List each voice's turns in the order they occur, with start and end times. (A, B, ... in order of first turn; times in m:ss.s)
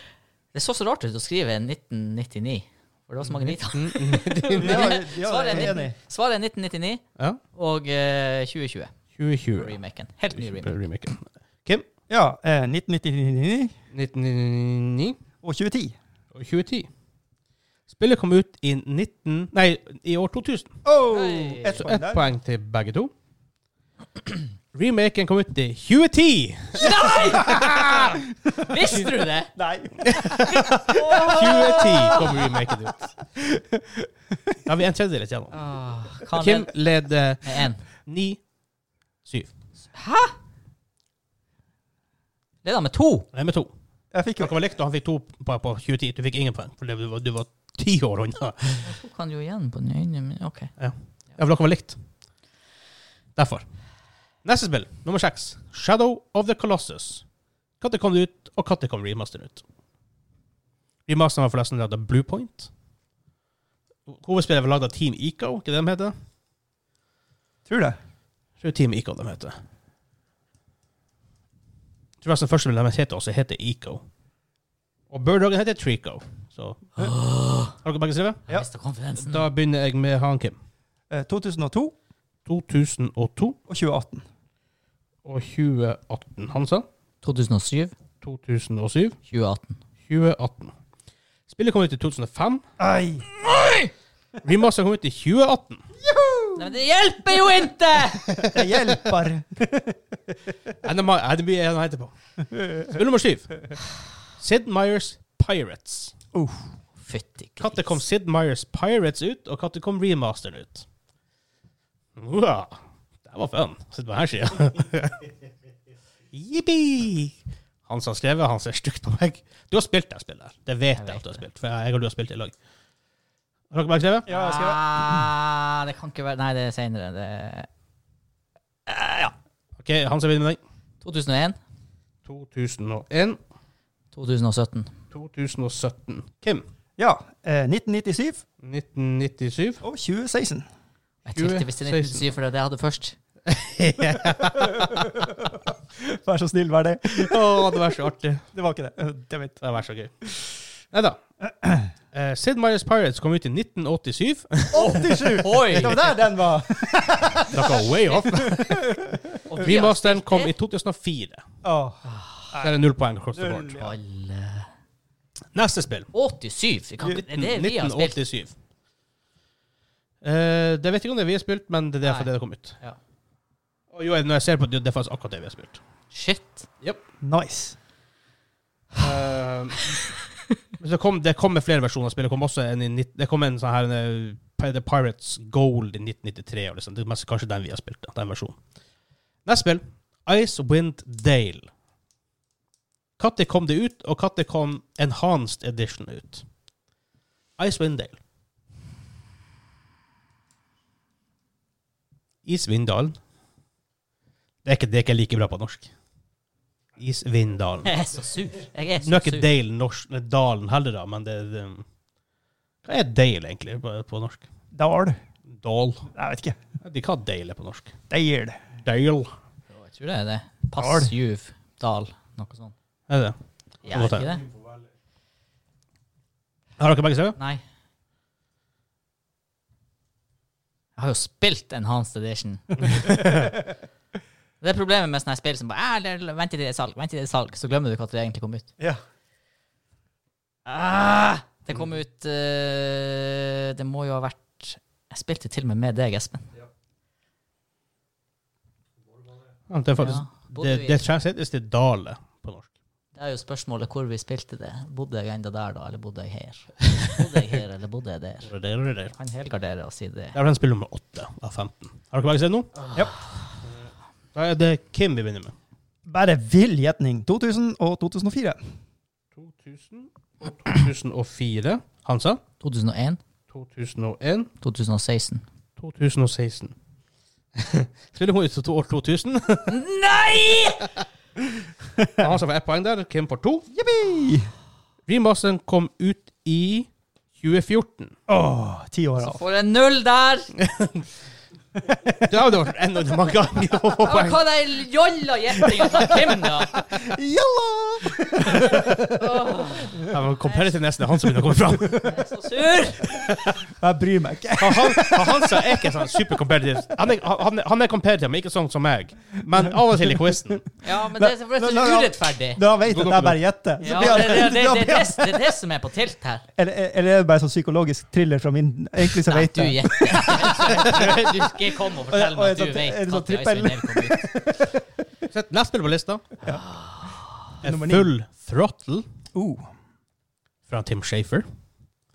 0:00.5-0:07.0 A
0:03.3-0:05.0 B
0:04.6-0:06.0 C
0:07.6-0:08.9 A
0:09.1-0:09.8 B
0:09.6-0:10.7 A
0:10.4-0:11.9 B
0:12.1-0:13.7 C
0:13.9-0:15.2 B
0:15.4-0:16.0 C
0:16.3-0:16.9 B
0:17.9-0:20.7 B
0:20.8-0:22.3 C
0:21.1-0:21.8 A
0:21.6-0:23.1 B
0:24.7-0:28.2 B
0:26.8-0:29.5 A
0:27.1-0:28.9 C
0:29.6-0:32.5 C
0:30.0-0:33.1 B
0:30.9-0:32.5 A
0:33.4-0:34.6 C
0:34.6-0:35.6 B
0:35.5-0:36.7 A
0:36.3-0:38.4 B
0:37.4-0:37.8 A
0:39.3-0:39.5 B
0:40.0-0:40.3 A
0:42.6-0:43.3 A
0:43.3-0:43.7 B
0:44.1-0:44.6 C
0:44.4-0:48.9 B
0:48.8-0:50.7 A
0:50.8-0:52.0 B
0:53.4-0:53.6 B
0:54.4-0:57.2 B
0:57.8-0:59.6 B
1:01.1-1:02.7 B
1:04.1-1:06.1 B
1:07.7-1:08.0 C
1:08.6-1:09.6 B
1:12.2-1:14.0 B
1:15.1-1:16.8 B
1:17.0-1:17.8 A
1:17.8-1:18.4 B
1:18.5-1:19.5 A
1:19.2-1:20.6 B
1:21.1-1:22.0 C
1:22.5-1:23.6 B
1:23.7-1:24.2 C
1:25.2-1:26.9 B
1:27.2-1:28.0 A
1:28.2-1:29.2 B
1:29.3-1:29.8 A
1:30.1-1:30.7 B
1:31.5-1:32.6 B
1:32.8-1:33.3 C
1:33.4-1:33.9 A
1:34.4-1:35.8 B
1:36.0-1:36.7 C
1:36.6-1:38.3 A
1:38.3-1:39.0 B
1:38.3-1:40.3 C
1:40.8-1:42.1 B
1:42.7-1:43.7 B
1:44.4-1:46.1 B
1:46.3-1:46.6 C
1:47.0-1:48.0 A
1:47.6-1:50.8 B
1:52.2-1:55.3 B
1:56.3-1:57.4 B
1:57.9-2:02.5 B
2:01.0-2:01.4 A
2:03.7-2:04.3 B
2:04.3-2:05.3 C
2:04.3-2:07.7 A
2:08.9-2:09.3 A
2:09.8-2:10.6 B
2:11.0-2:11.6 A
2:12.2-2:13.4 B
2:14.1-2:14.9 A
2:15.1-2:16.6 B
2:17.0-2:18.4 C
2:18.6-2:19.8 B
2:19.8-2:20.7 C
2:21.2-2:23.2 A
2:21.3-2:22.2 B
2:23.5-2:25.1 B
2:24.3-2:27.8 C
2:27.1-2:28.4 B
2:28.5-2:29.6 C
2:29.6-2:30.1 B
2:30.9-2:31.2 B
2:31.4-2:31.9 C
2:32.1-2:35.2 B
2:34.7-2:39.4 C
2:34.7-2:36.1 A
2:37.5-2:38.9 B
2:39.5-2:40.5 A
2:39.6-2:41.4 B
2:41.6-2:42.8 C
2:42.1-2:42.5 A
2:42.6-2:43.9 B
2:43.3-2:43.9 C
2:43.8-2:44.7 A
2:45.5-2:46.1 B
2:46.1-2:48.2 A
2:47.1-2:48.5 B
2:50.2-2:52.8 B
2:52.0-2:53.0 A
2:53.9-2:55.8 B
2:56.1-2:56.7 A
2:57.2-2:57.8 C
2:59.0-3:00.1 B
3:00.8-3:08.6 B
3:09.5-3:11.7 B
3:13.2-3:16.4 B
3:17.6-3:18.2 B
3:22.5-3:23.2 B
3:24.6-3:25.9 B
3:27.0-3:28.0 B
3:27.8-3:29.5 A
3:29.0-3:31.8 B
3:32.8-3:34.5 B
3:34.7-3:35.2 C
3:35.5-3:36.1 B
3:36.1-3:36.6 C
3:36.8-3:37.9 B
3:38.1-3:38.6 C
3:38.8-3:39.3 B
3:39.7-3:42.7 A
3:40.8-3:41.1 C
3:43.1-3:43.4 B
3:43.8-3:44.5 A
3:43.9-3:44.4 B
3:46.8-3:47.4 B
3:47.4-3:47.6 A
3:51.0-3:53.4 A
3:53.0-3:53.5 B
3:54.6-3:58.7 A
4:00.7-4:06.5 A
4:09.7-4:12.7 B
4:10.0-4:11.0 A
4:13.1-4:18.5 A
4:18.4-4:19.1 B
4:19.1-4:20.4 A
4:20.4-4:22.8 B
4:24.3-4:25.5 B
4:26.1-4:28.6 C
4:29.4-4:32.4 B
4:32.6-4:33.2 A
4:33.5-4:34.5 B
4:34.6-4:35.4 A
4:35.8-4:36.7 B
4:37.6-4:39.8 B
4:39.7-4:40.9 A
4:42.0-4:42.3 C
4:42.2-4:43.7 B
4:43.7-4:44.5 C
4:45.1-4:48.1 B
4:48.3-4:49.4 C
4:49.2-4:50.5 A
4:50.6-4:51.0 B
4:52.2-4:54.4 B
4:54.0-4:56.7 A
4:55.8-5:00.2 C
4:58.6-5:00.6 A
5:00.1-5:02.1 B
5:01.8-5:02.1 C
5:02.0-5:03.1 A
5:03.1-5:06.2 C
5:04.6-5:10.6 B
5:09.6-5:10.6 C
5:10.8-5:12.6 A
5:11.2-5:15.4 C
5:12.9-5:14.2 B
5:13.8-5:16.5 A
5:16.6-5:21.3 C
5:19.3-5:24.3 A
5:22.1-5:24.8 C
5:25.3-5:26.2 B
5:26.5-5:27.2 A
5:27.6-5:28.1 C
5:27.6-5:29.1 B
5:29.3-5:29.7 C
5:30.7-5:31.5 B